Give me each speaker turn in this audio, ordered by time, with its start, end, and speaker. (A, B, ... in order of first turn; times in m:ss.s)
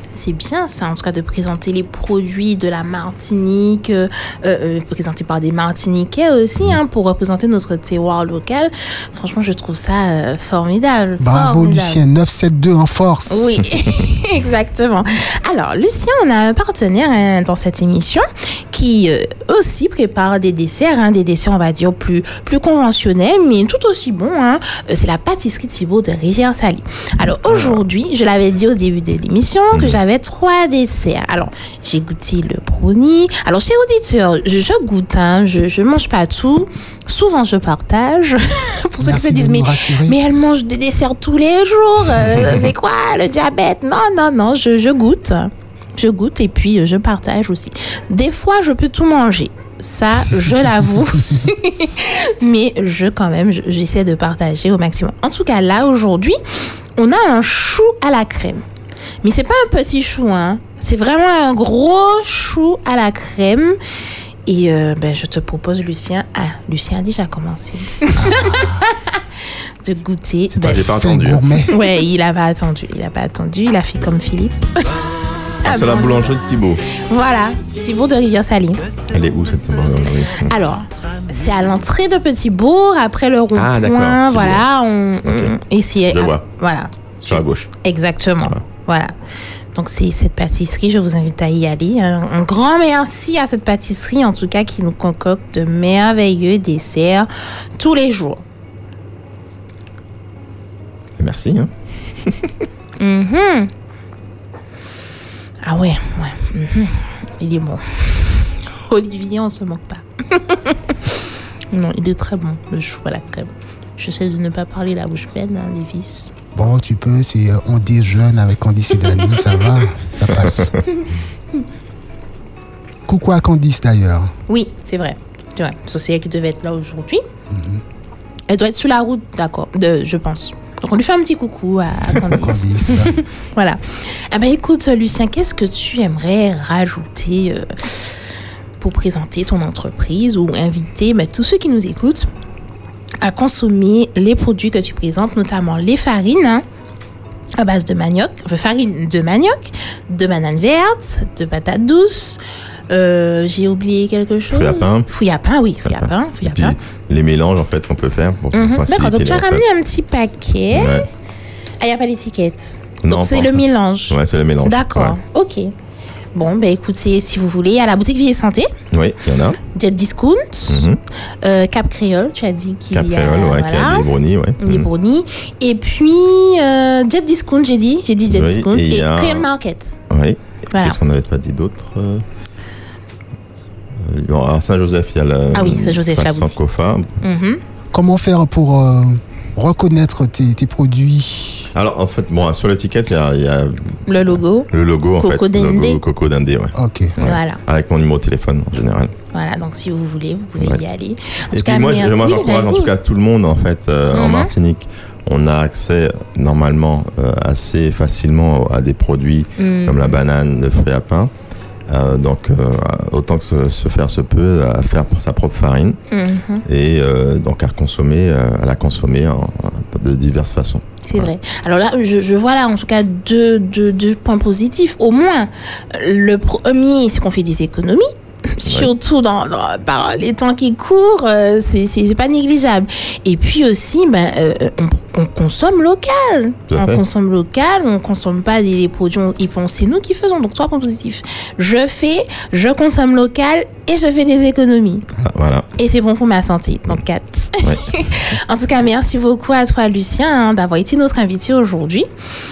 0:00.1-0:12.0 A
0:11.2-0:13.5 B
0:13.3-0:58.6 A
0:27.4-0:27.8 C
0:29.7-0:30.0 C
0:39.0-0:40.2 B
0:59.2-1:03.8 A
1:04.4-1:09.2 A
1:08.2-1:08.8 B
1:09.8-1:10.9 A
1:10.6-1:11.6 C
1:10.8-1:11.7 B
1:11.7-1:15.0 A
1:15.6-1:16.3 A
1:15.6-1:16.8 C
1:16.9-1:18.8 A
1:19.1-1:20.6 C
1:20.5-1:29.1 A
1:23.5-1:24.7 C
1:25.2-1:26.4 C
1:27.2-1:27.7 C
1:29.7-1:38.4 A
1:41.2-1:42.6 C
1:43.0-1:43.7 A
1:45.6-1:56.3 A
1:56.5-2:00.8 B
2:03.1-2:04.3 B
2:04.5-2:07.2 A
2:07.5-2:07.8 B
2:08.5-2:18.2 A
2:12.2-2:13.2 B
2:18.8-2:22.3 A
2:23.2-2:26.6 A
2:27.6-2:36.8 A
2:34.5-2:35.1 C
2:35.8-2:39.6 C
2:38.5-2:41.0 A
2:40.7-2:41.0 C
2:41.8-2:45.7 A
2:43.0-2:45.2 C
2:46.3-2:48.7 A
2:48.9-2:49.6 C
2:49.7-2:50.9 A
2:50.7-2:51.0 C
2:51.4-3:00.0 A
2:52.9-2:54.9 C
2:58.2-2:59.5 C
3:00.1-3:02.2 C
3:00.7-3:01.0 A
3:04.0-3:07.1 C
3:05.5-3:06.6 A
3:07.2-3:07.6 A
3:07.9-3:11.7 B
3:11.7-3:19.1 C
3:14.1-3:16.0 A
3:16.8-3:17.2 B
3:17.2-3:17.6 A
3:19.3-3:22.9 A
3:21.5-3:31.3 C
3:24.1-3:24.5 A
3:29.6-3:30.2 A
3:31.9-3:36.0 C
3:36.1-3:36.6 A
3:36.6-3:41.3 C
3:41.0-4:05.1 A
3:48.6-3:48.9 C
3:56.7-3:57.0 C
4:05.1-4:05.7 C
4:05.8-4:12.0 A